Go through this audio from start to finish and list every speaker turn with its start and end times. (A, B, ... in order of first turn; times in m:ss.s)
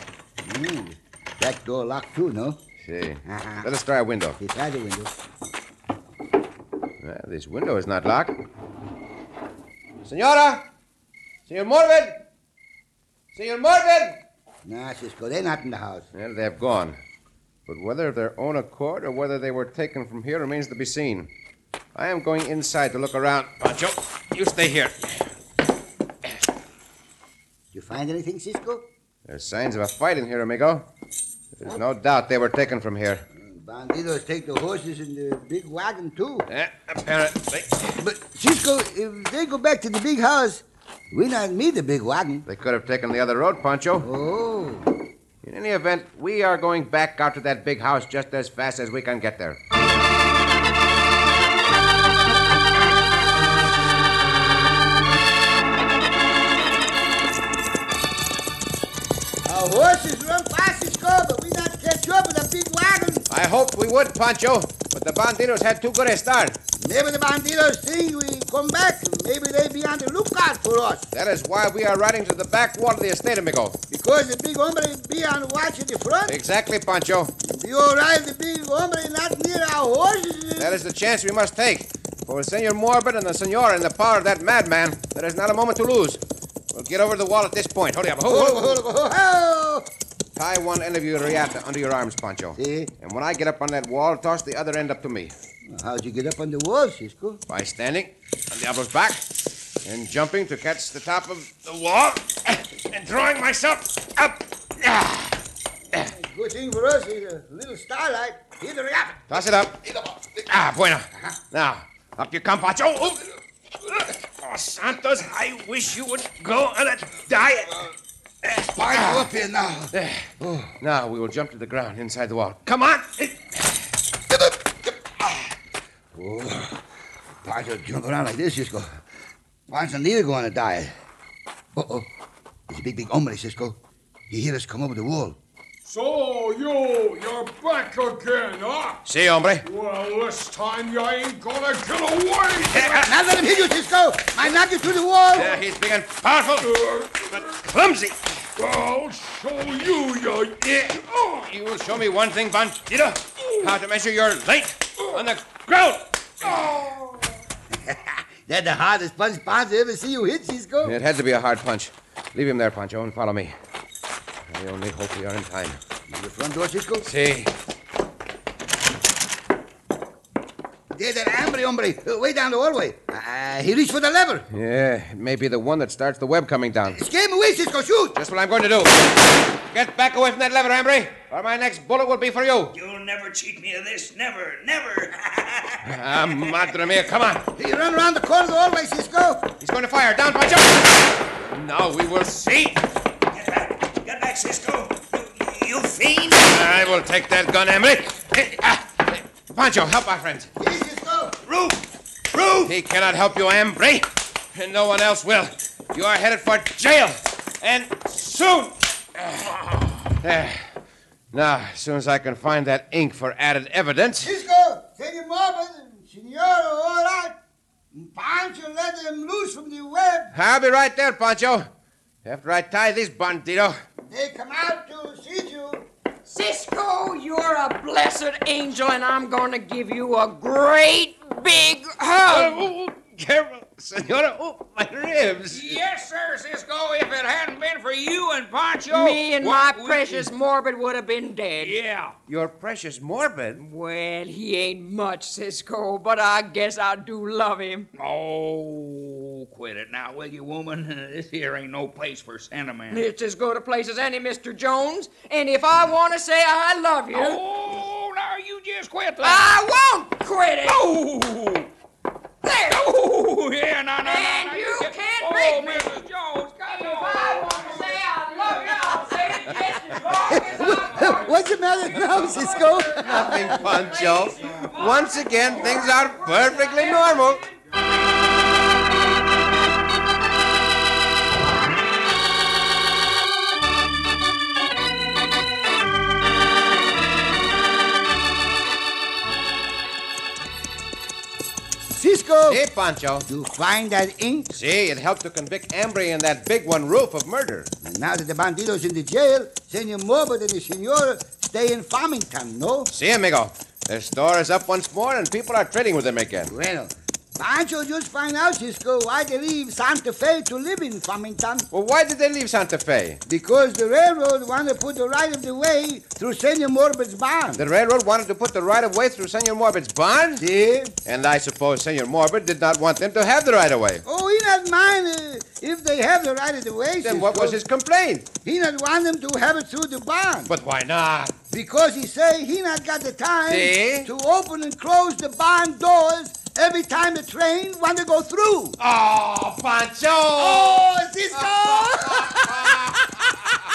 0:00.4-0:02.6 A
0:02.8-0:04.4 B
0:03.2-0:03.7 A
0:04.4-0:05.1 A
0:07.0-0:08.4 B
0:10.0-0:10.6 B
0:11.5-0:12.2 B
0:13.3-0:14.2 B
0:14.6-0:16.1 A
0:16.1-0:17.0 B
0:17.7-0:21.3 B
0:21.9-0:25.2 B
0:27.7-0:28.9 A
0:29.3-0:30.9 B
0:31.6-0:33.2 B
0:33.4-0:36.5 A
0:36.5-0:38.0 B
0:38.0-0:42.4 A
0:42.5-0:44.1 B
0:44.0-0:44.9 A
0:45.4-0:49.6 B
0:59.4-1:03.3 A
1:03.3-1:06.6 B
1:06.8-1:11.1 A
1:11.1-1:13.8 B
1:13.9-1:16.4 A
1:16.2-1:17.3 B
1:17.4-1:20.7 A
1:20.6-1:26.2 B
1:26.7-1:28.8 B
1:28.3-1:29.9 A
1:30.4-1:35.4 B
1:32.6-1:32.9 A
1:35.7-1:37.4 A
1:37.5-1:39.2 B
1:39.8-1:45.4 B
1:45.9-1:49.3 A
1:49.3-1:49.8 B
1:50.0-1:50.2 A
1:50.4-1:53.2 B
1:53.9-1:57.8 B
1:58.4-1:59.3 B
1:58.6-2:00.7 A
1:59.9-2:03.6 B
2:04.3-2:04.9 A
2:06.1-2:06.8 A
2:07.4-2:09.0 A
2:09.7-2:10.9 A
2:11.7-2:12.1 A
2:12.7-2:13.8 A
2:14.3-2:15.4 A
2:15.8-2:19.0 C
2:19.0-2:19.7 B
2:19.6-2:23.1 C
2:22.7-2:25.6 A
2:25.3-2:28.2 B
2:26.6-2:27.5 C
2:28.6-2:30.6 C
2:30.6-2:36.6 B
2:36.5-2:37.3 C
2:37.7-2:41.0 A
2:40.8-2:43.6 B
2:44.5-2:45.8 B
2:46.1-2:47.1 A
2:47.0-2:47.5 B
2:50.9-2:54.5 A
2:54.5-2:57.0 B
2:56.9-2:58.2 A
2:58.1-2:59.1 B
2:59.7-3:02.7 B
3:02.7-3:05.8 D
3:05.8-3:07.5 B
3:07.6-3:09.5 A
3:09.6-3:12.9 B
3:13.3-3:16.6 D
3:16.5-3:20.5 B
3:20.6-3:21.4 A
3:21.4-3:22.8 D
3:22.6-3:29.6 B
3:30.2-3:30.7 B
3:31.3-3:34.3 B
3:34.2-3:37.4 A
3:37.9-3:40.3 A
3:40.3-3:41.7 B
3:42.2-3:43.8 B
3:44.0-3:45.9 A
3:46.2-3:52.7 E
3:52.2-3:55.8 B
3:55.5-4:00.3 F
3:58.9-4:01.8 E
4:01.6-4:02.1 F
4:02.3-4:03.6 B
4:03.6-4:07.9 E
4:08.0-4:13.0 F
4:12.9-4:17.4 E
4:17.1-4:19.5 F
4:19.2-4:20.8 E
4:20.6-4:21.7 F
4:22.4-4:22.8 E
4:22.7-4:27.9 F
4:24.0-4:26.0 E
4:26.6-4:31.5 E
4:28.4-4:30.3 F
4:30.3-4:33.6 A
4:32.6-4:37.4 E
4:32.9-4:37.4 B
4:51.9-4:52.6 A
4:52.5-4:53.3 B
4:53.3-4:54.5 A
4:54.5-4:57.7 B
4:57.8-5:02.9 A
5:02.9-5:06.5 B
5:06.5-5:11.7 A
5:11.7-5:13.2 B
5:13.2-5:17.6 A
5:17.6-5:20.4 B
5:20.4-5:20.9 A
5:21.1-5:24.0 B
5:24.1-5:27.6 A
5:27.0-5:28.3 B
5:28.4-5:30.5 A
5:30.5-5:31.4 B
5:31.5-5:38.8 A
5:33.5-5:34.1 B
5:38.8-5:43.3 B
5:40.4-5:42.6 A